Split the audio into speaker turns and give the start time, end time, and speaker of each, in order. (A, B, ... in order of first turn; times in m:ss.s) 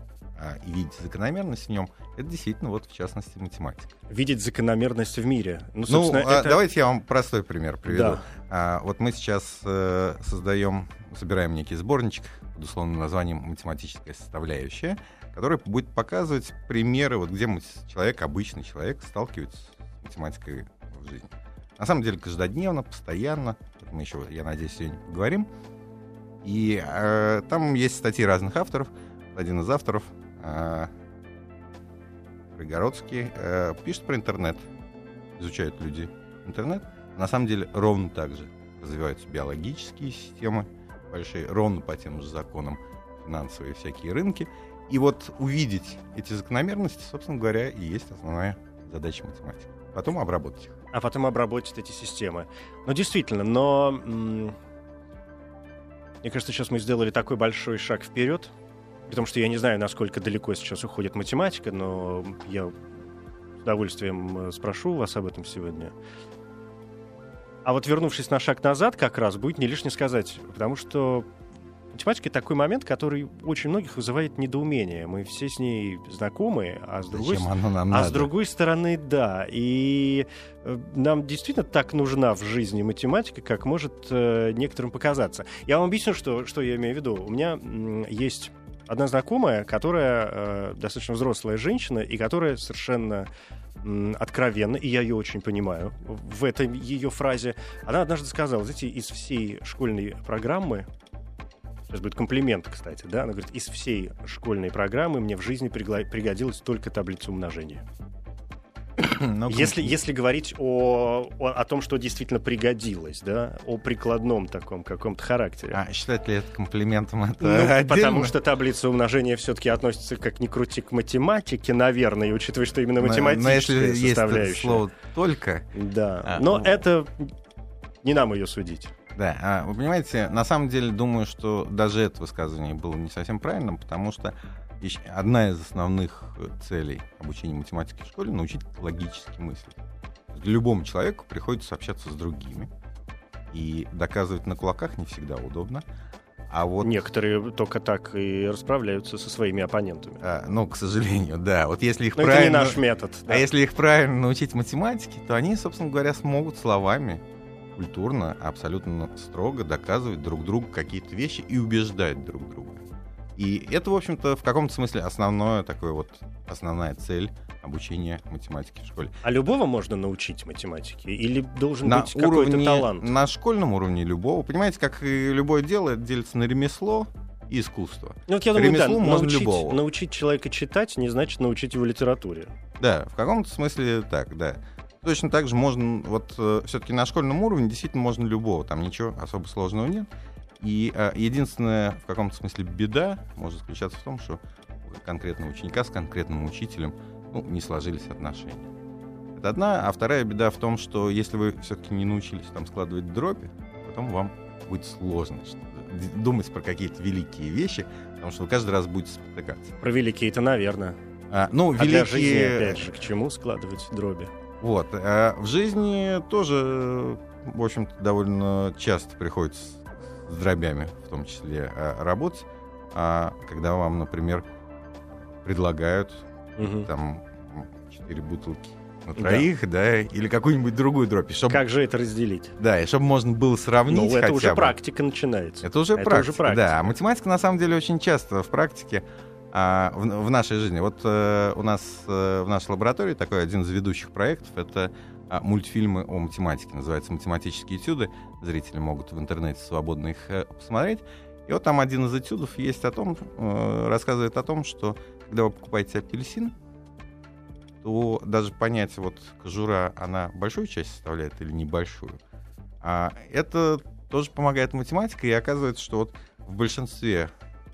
0:00.4-0:03.9 A
0:04.1-0:06.6 B
0:05.9-0:25.5 A
0:07.9-0:08.3 B
0:26.4-0:30.9 A
0:32.5-0:34.7 A
0:35.4-0:50.8 A
0:50.9-0:54.6 B
0:56.2-0:58.5 B
0:59.1-1:02.8 B
1:03.6-1:05.9 B
1:07.6-1:11.3 B
1:11.9-1:33.3 B
1:17.1-1:18.3 A
1:33.8-1:40.9 B
1:41.9-1:47.8 B
1:49.0-1:49.9 A
1:49.5-1:55.8 B
1:55.7-1:58.3 A
1:57.4-2:04.8 B
2:03.0-2:05.7 A
2:05.7-2:07.3 B
2:06.2-2:06.8 A
2:08.0-2:08.9 B
2:09.1-2:22.7 A
2:23.5-2:25.8 A
2:26.5-2:27.0 A
2:26.8-2:30.2 B
2:30.2-2:37.2 A
2:32.2-2:33.4 B
2:37.7-2:42.8 A
2:43.4-2:49.1 A
2:49.2-2:53.1 B
2:51.8-2:59.8 A
2:58.3-3:02.5 B
3:02.8-3:18.7 A
3:19.3-3:29.8 A
3:29.8-3:31.0 B
3:31.3-3:32.8 A
3:31.7-3:34.3 B
3:34.6-3:44.4 A
3:45.4-3:51.6 A
3:46.6-3:46.9 B
3:49.2-3:49.4 B
3:51.5-3:52.6 B
3:52.6-3:54.8 A
3:53.9-3:56.9 B
3:55.6-4:16.5 A
4:17.8-4:22.2 A
4:22.8-4:27.3 A